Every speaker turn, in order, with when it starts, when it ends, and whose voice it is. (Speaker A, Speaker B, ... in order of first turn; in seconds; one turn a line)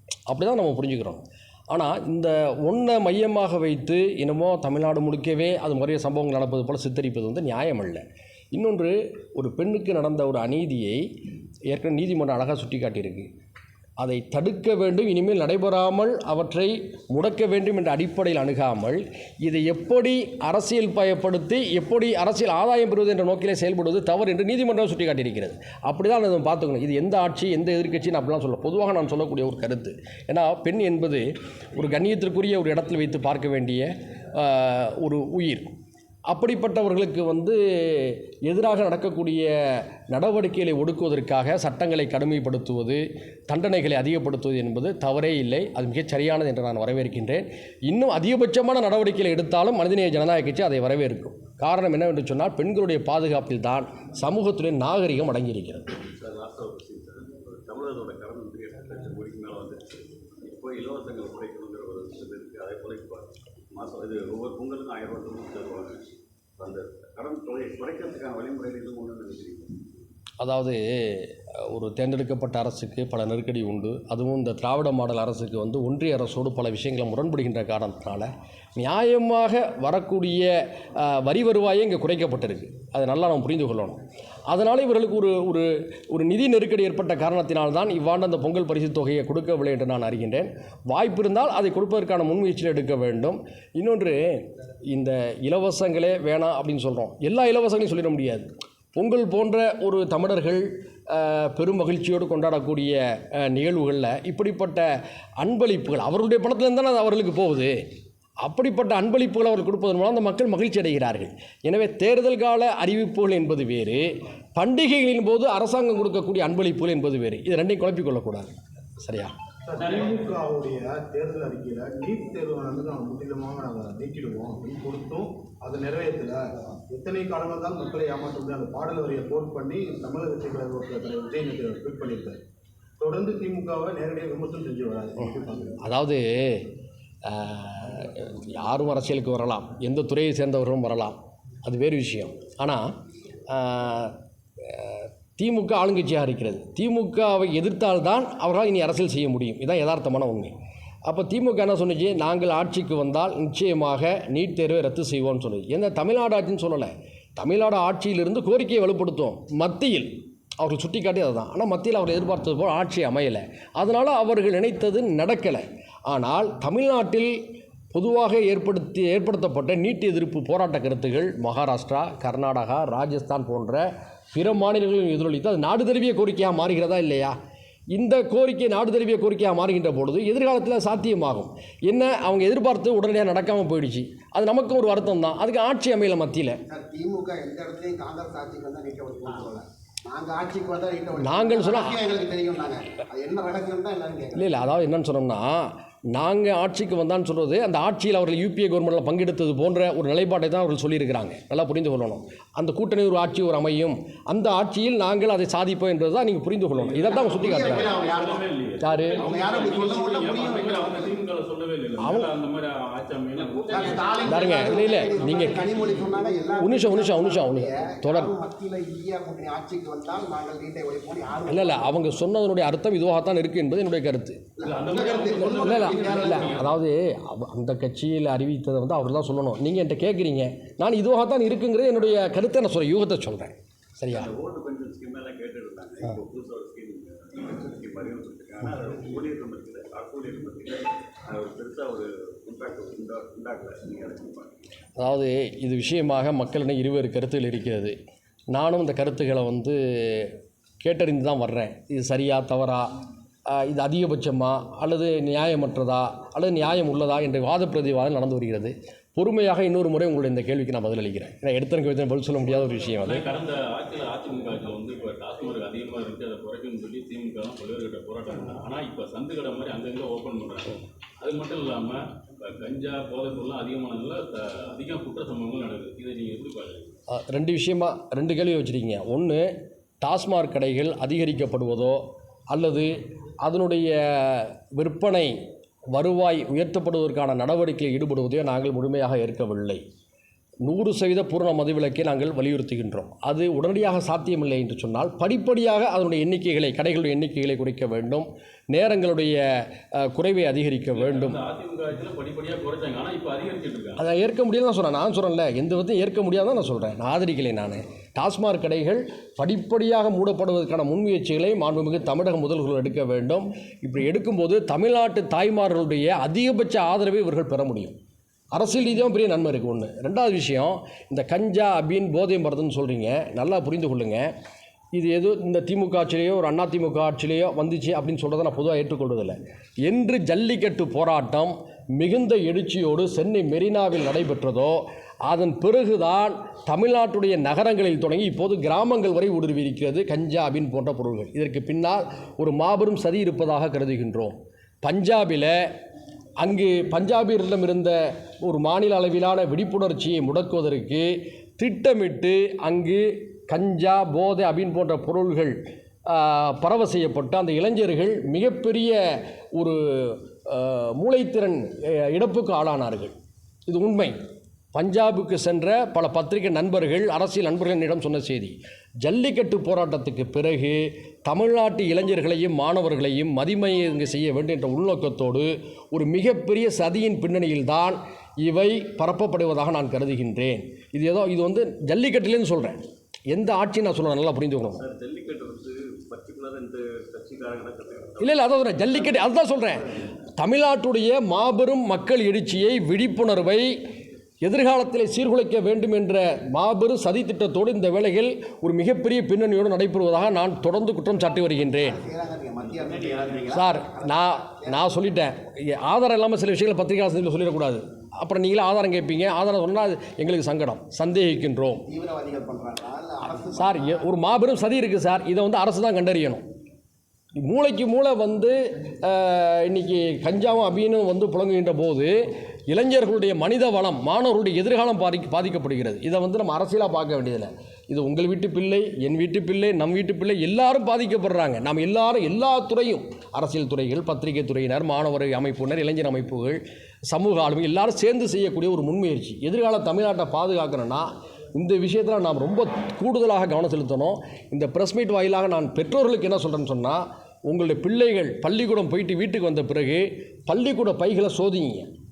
Speaker A: 0.3-11.1
Speaker A: 11.7-13.3
Speaker A: 14.0-35.7
Speaker A: 36.3-55.9
Speaker B: 56.1-59.8
Speaker B: 60.4-66.0
Speaker B: 66.6-69.8
Speaker A: 70.4-104.9
Speaker A: 105.4-107.8
Speaker A: 108.4-119.3
Speaker C: 119.7-132.4
Speaker D: 119.8-120.3
Speaker C: 133.0-135.8
Speaker A: 135.8-136.7
Speaker A: 137.2-142.9
Speaker A: 143.5-150.5
Speaker A: 151.1-167.3
Speaker A: 167.9-177.3
Speaker A: 177.9-186.6
Speaker E: 186.7-194.5
Speaker A: 191.2-192.0
Speaker A: 194.3-207.9
Speaker D: 206.9-214.9
Speaker E: 207.0-208.4
Speaker A: 208.8-209.2
Speaker E: 209.2-211.2
Speaker A: 212.0-212.3
Speaker E: 213.7-222.1
Speaker A: 214.2-215.8
Speaker D: 215.6-216.1
Speaker A: 216.6-218.3
Speaker A: 221.5-224.4
Speaker E: 224.6-226.7
Speaker D: 224.6-226.7
Speaker A: 225.5-234.3
Speaker B: 234.1-244.6
Speaker A: 245.0-248.0
Speaker A: 248.5-252.9
Speaker A: 253.5-263.3
Speaker D: 262.9-277.0
Speaker A: 277.1-279.5
Speaker A: 280.0-285.4
Speaker A: 285.9-289.8
Speaker A: 290.6-301.4
Speaker D: 300.9-304.0
Speaker A: 304.0-318.0
Speaker A: 318.5-324.3
Speaker A: 324.9-345.6
Speaker A: 346.4-363.1
Speaker A: 363.7-364.2
Speaker A: 364.7-382.8
Speaker A: 383.3-384.8
Speaker B: 384.6-388.7
Speaker A: 388.2-393.8
Speaker A: 394.4-402.0
Speaker E: 401.6-404.9
Speaker A: 403.5-411.8
Speaker E: 411.9-414.1
Speaker A: 413.6-416.4
Speaker A: 417.4-422.1
Speaker A: 422.7-451.9